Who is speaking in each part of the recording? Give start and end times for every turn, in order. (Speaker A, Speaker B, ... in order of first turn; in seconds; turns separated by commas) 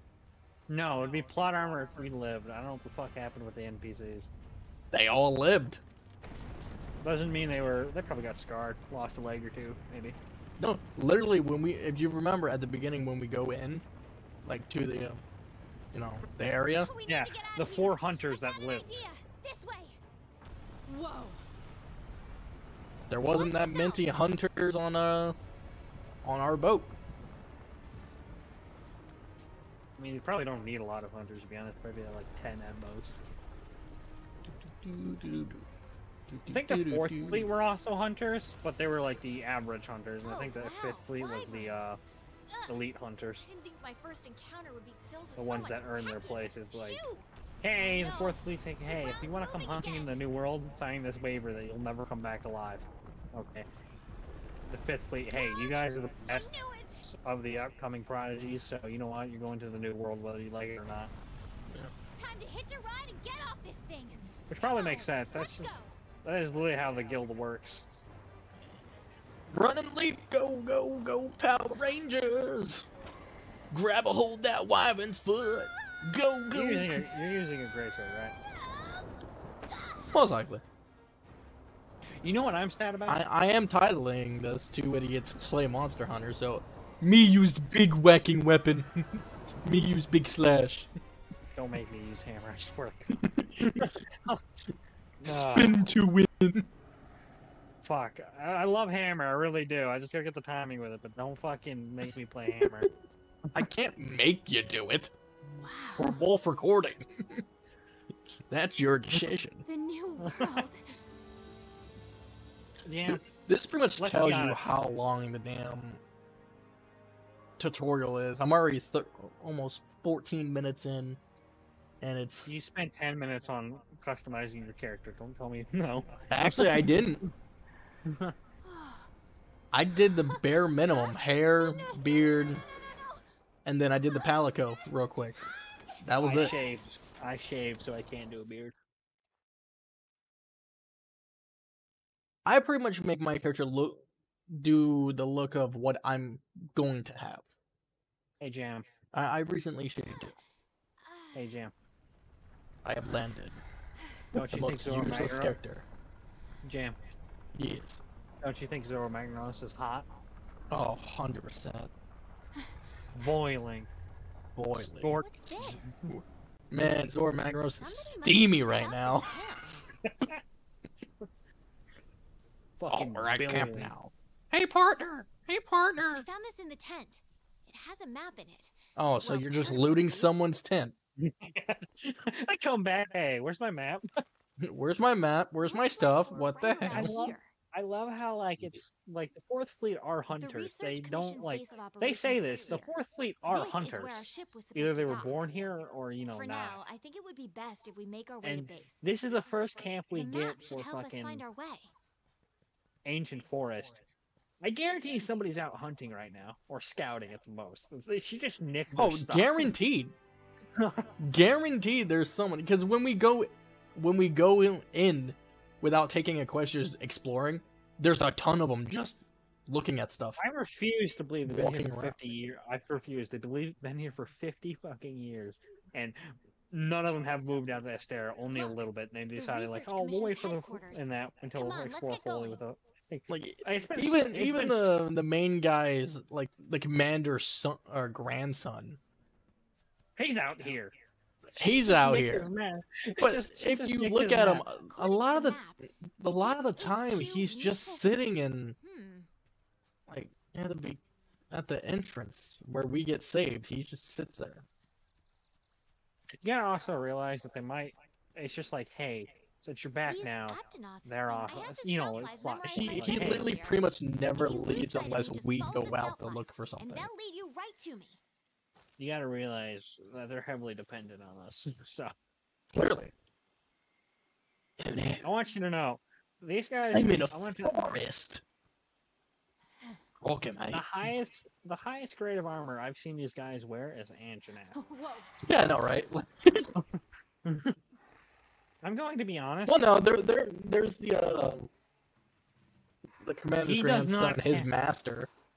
Speaker A: 0.7-4.3, Speaker B: 4.9-5.8, Speaker A: 7.0-10.2, Speaker B: 10.6-13.8, Speaker B: 14.4-15.2, Speaker B: 15.9-16.9, Speaker C: 16.7-20.0, Speaker A: 17.1-18.9, Speaker C: 20.9-21.4, Speaker B: 23.1-25.4, Speaker C: 23.3-24.1, Speaker B: 26.2-26.9, Speaker A: 29.9-33.2, Speaker B: 34.5-35.6, Speaker B: 36.3-37.5, Speaker A: 36.5-42.0, Speaker C: 40.2-42.9, Speaker A: 42.7-43.4, Speaker C: 43.4-50.2, Speaker A: 45.4-47.0, Speaker A: 47.6-53.7, Speaker A: 54.7-61.1, Speaker C: 55.3-57.1, Speaker C: 62.1-66.0, Speaker A: 64.5-65.7, Speaker A: 66.2-67.8, Speaker B: 69.5-72.8, Speaker B: 73.7-77.0, Speaker A: 76.5-78.3, Speaker C: 78.5-79.1, Speaker C: 79.7-80.1, Speaker B: 80.1-80.6, Speaker A: 82.2-83.2, Speaker B: 83.1-90.9, Speaker A: 91.5-94.4, Speaker B: 93.2-93.9, Speaker A: 95.2-95.9, Speaker B: 95.2-96.7, Speaker A: 97.8-102.9, Speaker B: 102.6-102.9, Speaker B: 103.5-105.1, Speaker C: 105.5-106.2, Speaker B: 106.0-107.4, Speaker B: 108.5-109.6, Speaker C: 109.6-110.9, Speaker A: 110.2-110.7, Speaker A: 112.8-113.2, Speaker B: 113.0-116.0, Speaker A: 114.0-114.7, Speaker B: 117.6-121.2, Speaker B: 122.0-122.5, Speaker A: 122.5-126.9, Speaker B: 126.3-127.2, Speaker A: 128.1-128.3, Speaker C: 128.6-129.1, Speaker B: 129.7-132.6, Speaker C: 131.7-133.2, Speaker B: 133.6-135.4, Speaker B: 136.0-136.5, Speaker A: 136.2-138.7, Speaker C: 136.3-136.6, Speaker B: 142.4-147.4, Speaker A: 148.4-148.9, Speaker B: 149.1-150.3, Speaker C: 151.0-151.6, Speaker A: 151.3-151.7, Speaker B: 152.8-153.6, Speaker B: 154.3-155.8, Speaker A: 154.3-155.6, Speaker A: 156.6-157.0, Speaker B: 157.5-158.0, Speaker A: 158.4-160.1, Speaker B: 160.7-161.9, Speaker A: 163.1-163.9, Speaker B: 164.5-169.6, Speaker A: 165.0-165.9, Speaker C: 165.1-166.0, Speaker C: 167.8-169.8, Speaker A: 170.0-170.4, Speaker A: 172.8-173.9, Speaker B: 172.9-176.2, Speaker C: 176.0-180.4, Speaker B: 178.9-180.9, Speaker A: 181.2-184.1, Speaker B: 184.6-187.3, Speaker C: 185.6-187.5, Speaker A: 186.9-196.8, Speaker C: 190.3-192.9, Speaker C: 193.5-195.5, Speaker C: 196.3-199.1, Speaker A: 198.4-201.4, Speaker C: 200.1-201.9, Speaker A: 203.0-204.0, Speaker A: 204.6-209.7, Speaker B: 208.9-210.2, Speaker A: 210.8-211.1, Speaker B: 211.2-220.4, Speaker A: 220.4-235.0, Speaker B: 221.4-222.2, Speaker C: 228.5-228.8, Speaker C: 229.3-232.6, Speaker B: 233.3-239.0, Speaker A: 240.2-240.9, Speaker B: 241.6-242.5, Speaker A: 241.6-244.7, Speaker B: 243.2-248.8, Speaker C: 244.8-245.8, Speaker C: 246.3-248.1, Speaker C: 248.8-249.3, Speaker B: 250.1-254.7, Speaker A: 256.4-263.5, Speaker C: 260.0-268.2, Speaker B: 262.6-267.1, Speaker A: 269.0-272.1, Speaker B: 272.7-273.1, Speaker B: 274.8-275.2, Speaker A: 275.2-278.1, Speaker B: 276.9-278.4, Speaker B: 280.2-281.1, Speaker A: 280.7-284.8, Speaker C: 284.7-285.3, Speaker B: 285.4-286.8, Speaker A: 287.4-287.8, Speaker A: 288.8-289.9, Speaker B: 289.6-291.7, Speaker B: 293.2-295.3, Speaker A: 293.6-294.7